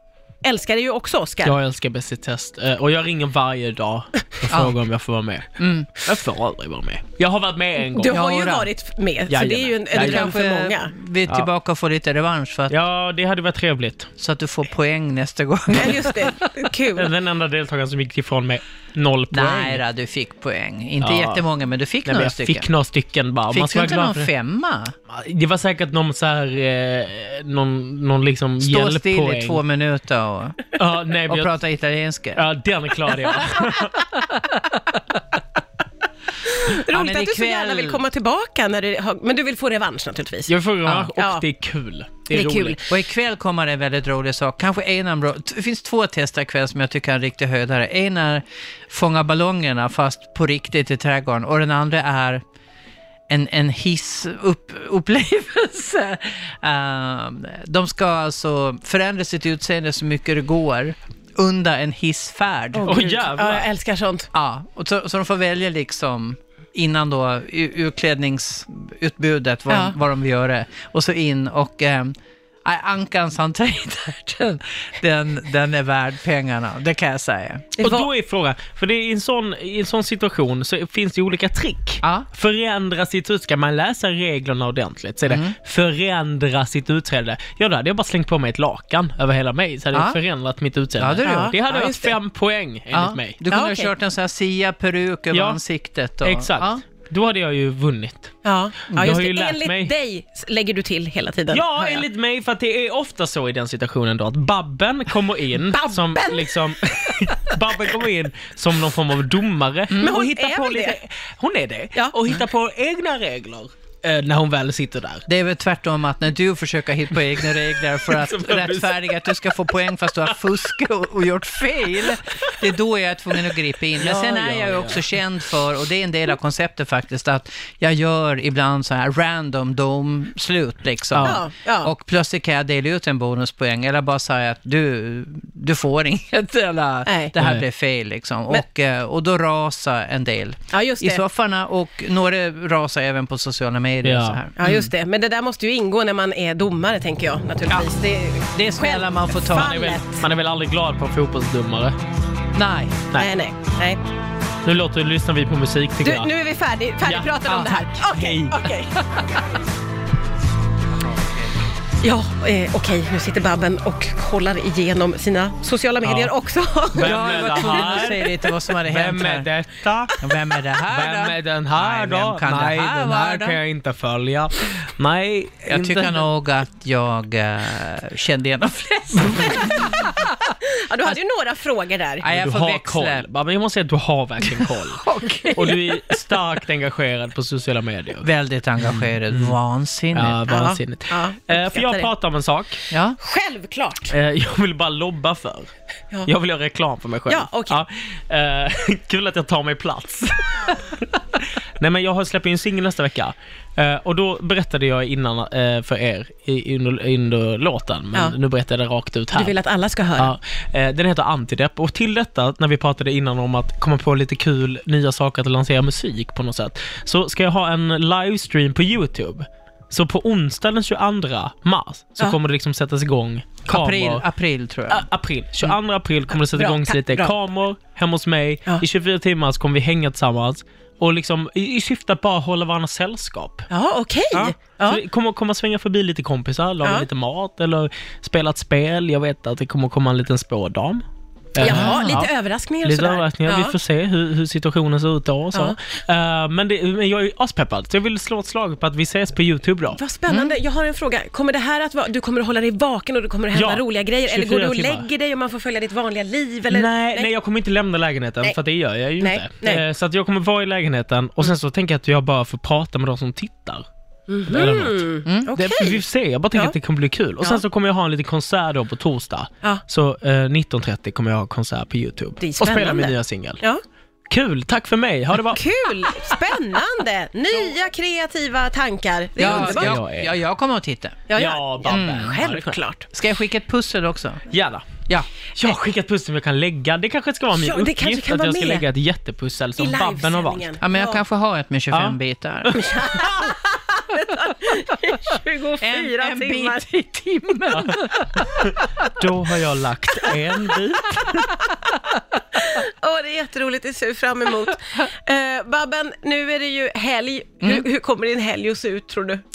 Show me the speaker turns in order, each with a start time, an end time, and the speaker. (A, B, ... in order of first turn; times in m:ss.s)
0:00.4-0:01.6 A
0:01.4-0:08.2 B
0:04.5-0:04.8 C
0:05.6-0:05.9 C
0:08.0-0:10.9 A
0:08.0-0:08.7 C
0:09.3-0:10.4 B
0:10.0-0:12.8 C
0:12.7-0:14.1 B
0:14.2-0:16.4 C
0:15.7-0:17.1 A
0:17.0-0:19.8 B
0:19.3-0:22.7 C
0:21.0-0:21.4 B
0:22.0-0:24.3 B
0:23.5-0:24.9 C
0:25.1-0:29.6 B
0:28.6-0:30.7 C
0:30.8-0:31.5 B
0:31.3-0:32.4 C
0:32.4-0:34.2 B
0:36.5-0:40.5 A
0:36.9-0:38.0 C
0:40.5-0:42.8 B
0:40.8-0:41.1 C
0:41.2-0:41.4 A
0:42.3-0:42.9 A
0:42.9-0:52.4 C
0:53.3-1:02.9 C
1:02.7-1:04.3 A
1:02.8-1:03.7 B
1:04.3-1:17.7 C
1:09.7-1:10.0 A
1:17.8-1:33.4 B
1:17.8-1:18.1 A
1:25.3-1:25.6 C
1:29.9-1:30.2 C
1:31.0-1:31.5 C
1:31.2-1:32.2 A
1:32.9-1:36.8 C
1:33.5-1:33.9 A
1:35.3-1:35.6 B
1:36.2-1:38.4 B
1:38.4-1:42.0 A
1:38.9-1:39.9 B
1:41.5-1:55.2 B
1:45.7-1:47.2 A
1:50.0-1:51.0 A
1:55.3-2:24.9 C
1:58.0-1:59.4 B
2:03.9-2:05.2 B
2:11.1-2:11.4 B
2:11.2-2:11.9 A
2:17.1-2:17.3 A
2:20.7-2:21.2 A
2:24.0-2:24.4 B
2:24.6-2:30.2 A
2:28.5-2:29.8 C
2:29.5-2:32.0 B
2:32.6-2:33.1 C
2:33.2-2:34.0 A
2:34.6-2:36.3 B
2:36.0-2:39.2 A
2:37.0-2:38.7 B
2:37.5-2:37.9 C
2:41.0-2:41.6 C
2:42.0-2:48.1 A
2:46.0-2:46.3 B
2:46.9-2:50.3 B
2:47.0-2:49.5 C
2:50.2-2:53.6 C
2:50.8-2:56.3 B
2:55.7-3:00.3 C
2:59.6-2:59.9 A
3:00.6-3:02.3 A
3:02.2-3:03.3 C
3:02.2-3:08.3 B
3:04.4-3:06.2 C
3:08.2-3:10.4 C
3:08.8-3:09.6 B
3:10.1-3:12.8 B
3:10.5-3:12.1 A
3:12.9-3:13.2 C
3:13.2-3:14.1 A
3:14.1-3:15.7 B
3:16.3-3:29.5 B
3:17.3-3:17.8 A
3:29.3-3:30.3 A
3:30.2-3:44.2 B
3:43.7-3:45.1 C
3:44.9-3:53.7 B
3:46.5-3:47.3 A
3:53.7-3:55.0 A
3:54.3-4:02.3 B
4:01.6-4:03.7 A
4:01.6-4:02.3 C
4:02.8-4:10.0 B
4:09.9-4:17.3 A
4:13.5-4:15.1 B
4:16.7-4:23.9 B
4:19.2-4:19.8 A
4:24.3-4:26.8 A
4:24.5-4:33.6 B
4:32.4-4:33.8 A
4:34.3-4:35.6 B
4:35.5-4:40.0 A
4:39.4-4:41.2 C
4:39.4-4:40.4 B
4:41.3-4:43.1 A
4:41.3-4:42.7 B
4:41.9-4:42.4 C
4:43.1-4:44.5 C
4:44.5-4:45.0 B
4:45.6-4:50.7 B
4:47.5-4:48.8 A
4:49.8-4:51.2 A
4:50.8-4:52.7 C
4:51.9-4:53.5 B
4:52.7-4:56.8 A
4:55.8-4:59.1 C
4:57.7-5:01.5 B
5:02.5-5:09.4 A